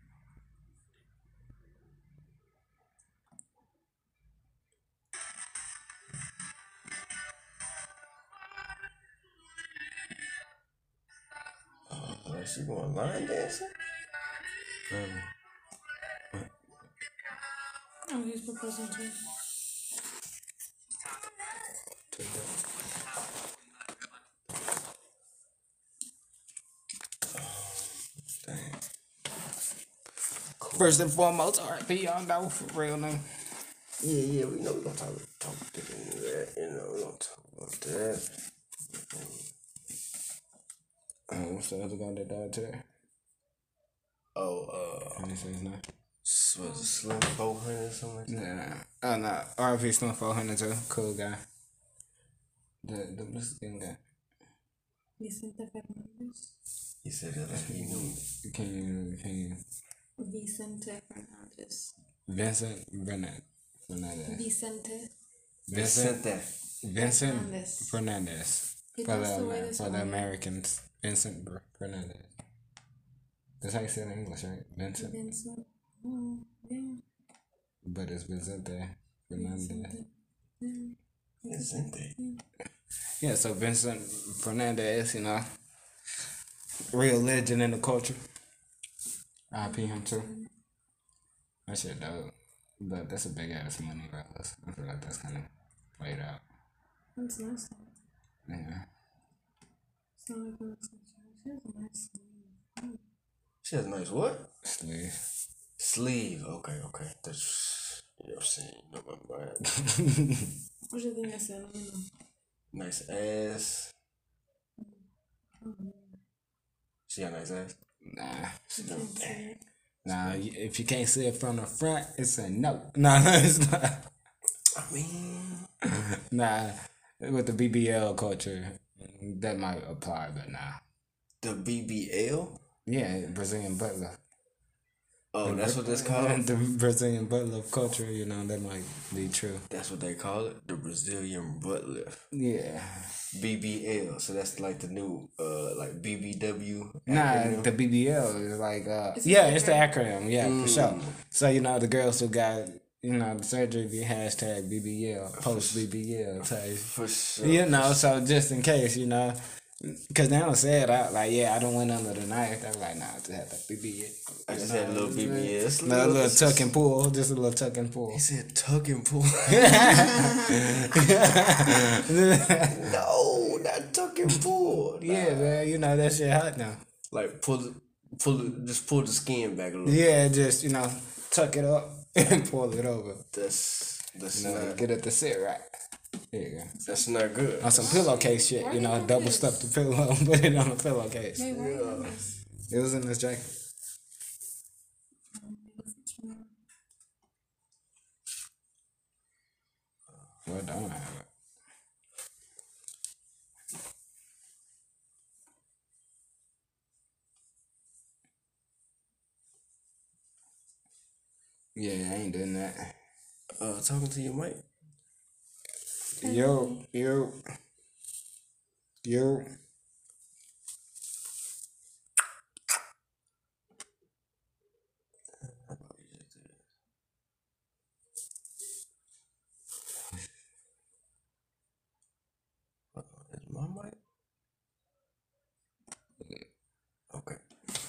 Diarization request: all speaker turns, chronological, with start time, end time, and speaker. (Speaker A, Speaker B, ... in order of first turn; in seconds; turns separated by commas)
Speaker A: 11.9-13.7, Speaker B: 14.9-15.3, Speaker C: 18.1-19.2, Speaker B: 22.1-22.5, Speaker A: 27.3-28.8, Speaker A: 30.6-31.0, Speaker B: 30.8-33.2, Speaker A: 34.0-38.3, Speaker A: 38.9-39.4, Speaker B: 41.3-42.9, Speaker A: 44.3-45.3, Speaker B: 45.2-45.8, Speaker A: 46.2-48.5, Speaker C: 46.6-46.9, Speaker B: 48.3-51.4, Speaker B: 52.8-54.0, Speaker C: 55.2-56.5, Speaker A: 57.0-58.2, Speaker B: 57.7-59.6, Speaker C: 60.2-61.9, Speaker B: 62.3-64.4, Speaker C: 64.3-65.1, Speaker B: 65.7-66.2, Speaker A: 65.7-66.5, Speaker B: 66.8-72.3, Speaker C: 67.0-67.9, Speaker C: 69.0-70.3, Speaker B: 73.6-75.2, Speaker C: 75.0-77.0, Speaker B: 77.8-79.9, Speaker C: 79.3-80.1, Speaker C: 80.6-82.4, Speaker A: 81.5-82.2, Speaker B: 83.2-85.5, Speaker B: 86.9-88.2, Speaker B: 89.5-90.3, Speaker C: 89.6-90.5, Speaker B: 91.7-96.4, Speaker C: 97.2-97.9, Speaker B: 98.5-98.8, Speaker C: 100.2-103.0, Speaker A: 103.6-104.5, Speaker B: 104.6-105.2, Speaker A: 105.8-109.7, Speaker B: 109.8-110.5, Speaker C: 110.9-112.1, Speaker A: 112.7-113.9, Speaker C: 114.8-115.0, Speaker C: 115.6-116.2, Speaker A: 117.1-117.7, Speaker B: 118.0-118.7, Speaker A: 118.8-119.4, Speaker C: 118.8-119.6, Speaker A: 120.0-120.4, Speaker B: 120.0-124.0, Speaker A: 124.8-125.7, Speaker B: 126.0-130.8, Speaker A: 131.4-132.6, Speaker B: 132.8-134.2, Speaker A: 135.3-136.4, Speaker B: 135.4-139.6, Speaker A: 139.7-142.2, Speaker B: 142.3-143.1, Speaker A: 143.3-147.7, Speaker B: 147.1-156.9, Speaker C: 149.2-149.9, Speaker A: 150.4-151.1, Speaker A: 155.4-155.8, Speaker A: 156.8-158.0, Speaker B: 157.4-168.2, Speaker A: 164.5-166.7, Speaker A: 168.1-170.6, Speaker B: 169.5-172.8, Speaker A: 172.5-175.6, Speaker B: 175.0-176.8, Speaker A: 177.1-180.0, Speaker B: 179.8-183.2, Speaker A: 183.3-184.8, Speaker B: 184.3-185.7, Speaker B: 186.3-186.7, Speaker C: 186.8-187.1, Speaker A: 186.8-188.1, Speaker B: 187.6-191.4, Speaker C: 187.7-189.6, Speaker C: 191.3-192.3, Speaker A: 191.5-192.1, Speaker B: 192.7-193.5, Speaker C: 195.3-196.5, Speaker B: 200.4-201.2, Speaker B: 211.7-213.0, Speaker A: 213.6-214.6, Speaker C: 216.2-216.8, Speaker B: 216.2-217.4, Speaker B: 219.0-219.4, Speaker A: 225.4-226.6, Speaker A: 232.9-234.0, Speaker A: 237.1-237.4